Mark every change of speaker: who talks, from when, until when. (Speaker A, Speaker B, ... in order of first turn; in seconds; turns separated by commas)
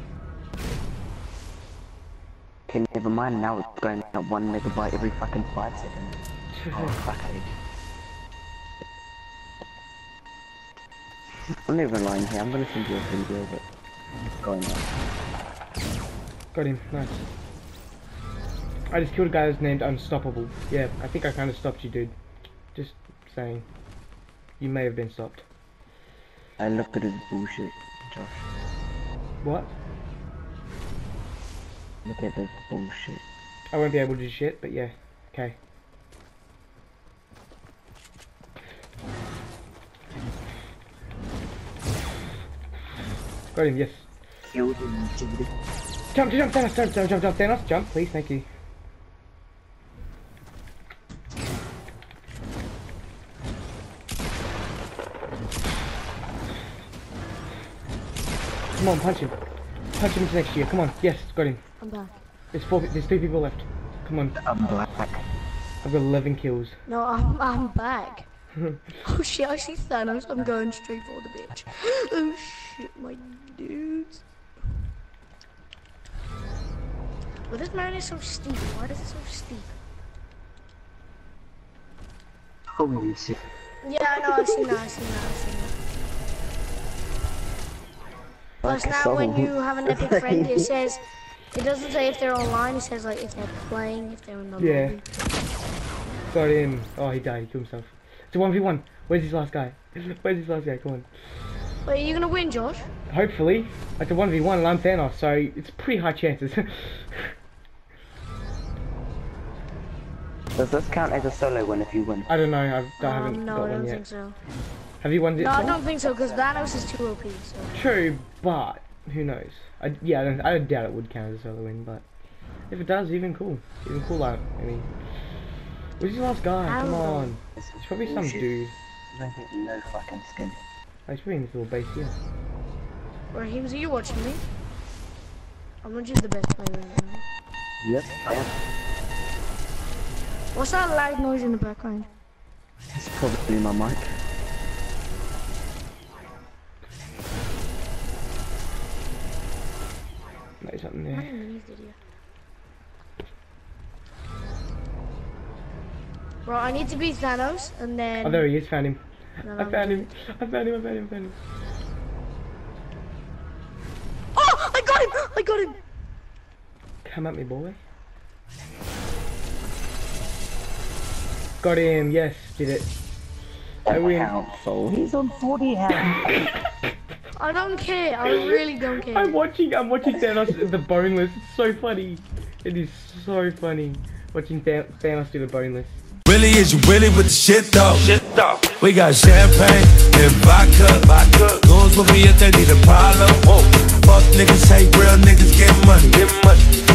Speaker A: 2.7-6.2, Speaker B: 6.5-7.0, Speaker A: 6.7-7.5, Speaker A: 11.7-13.7, Speaker A: 14.4-14.8, Speaker B: 16.5-17.3, Speaker B: 18.9-22.1, Speaker B: 22.7-23.7, Speaker B: 24.6-25.4, Speaker A: 26.6-28.4, Speaker B: 29.4-29.7, Speaker A: 32.0-33.2, Speaker B: 33.7-35.6, Speaker B: 43.5-44.1, Speaker A: 44.4-45.5, Speaker B: 46.1-48.5, Speaker B: 58.7-59.4, Speaker B: 60.0-61.6, Speaker C: 61.8-62.2, Speaker B: 62.5-64.4, Speaker A: 64.4-65.2, Speaker B: 65.8-66.8, Speaker C: 66.9-68.3, Speaker C: 69.0-74.2, Speaker C: 77.5-79.8, Speaker A: 82.7-83.4, Speaker C: 83.8-85.8, Speaker A: 84.2-84.8, Speaker A: 88.6-90.7, Speaker C: 88.6-91.0, Speaker C: 91.5-95.0, Speaker B: 94.6-95.0, Speaker B: 96.3-101.1, Speaker C: 101.9-102.9, Speaker B: 103.1-107.3, Speaker A: 110.6-112.3, Speaker B: 112.3-114.0, Speaker C: 113.0-114.4, Speaker B: 115.0-115.8, Speaker C: 115.4-117.7, Speaker B: 117.7-122.0, Speaker B: 122.7-124.9, Speaker B: 126.0-128.8, Speaker C: 126.7-127.4, Speaker A: 127.6-128.5, Speaker A: 129.1-130.6, Speaker B: 131.1-132.2, Speaker C: 133.3-134.4, Speaker C: 135.8-137.2, Speaker A: 137.8-138.5, Speaker C: 140.5-142.1, Speaker A: 142.9-144.1, Speaker B: 150.6-151.4, Speaker C: 151.1-152.0, Speaker C: 156.4-158.5, Speaker B: 158.2-161.4, Speaker C: 159.4-160.1, Speaker C: 164.3-165.8, Speaker B: 167.0-167.8, Speaker B: 171.6-172.9, Speaker A: 173.9-176.4, Speaker B: 173.9-174.3, Speaker C: 177.4-179.3, Speaker B: 178.3-178.6, Speaker B: 179.1-186.0, Speaker D: 186.3-196.6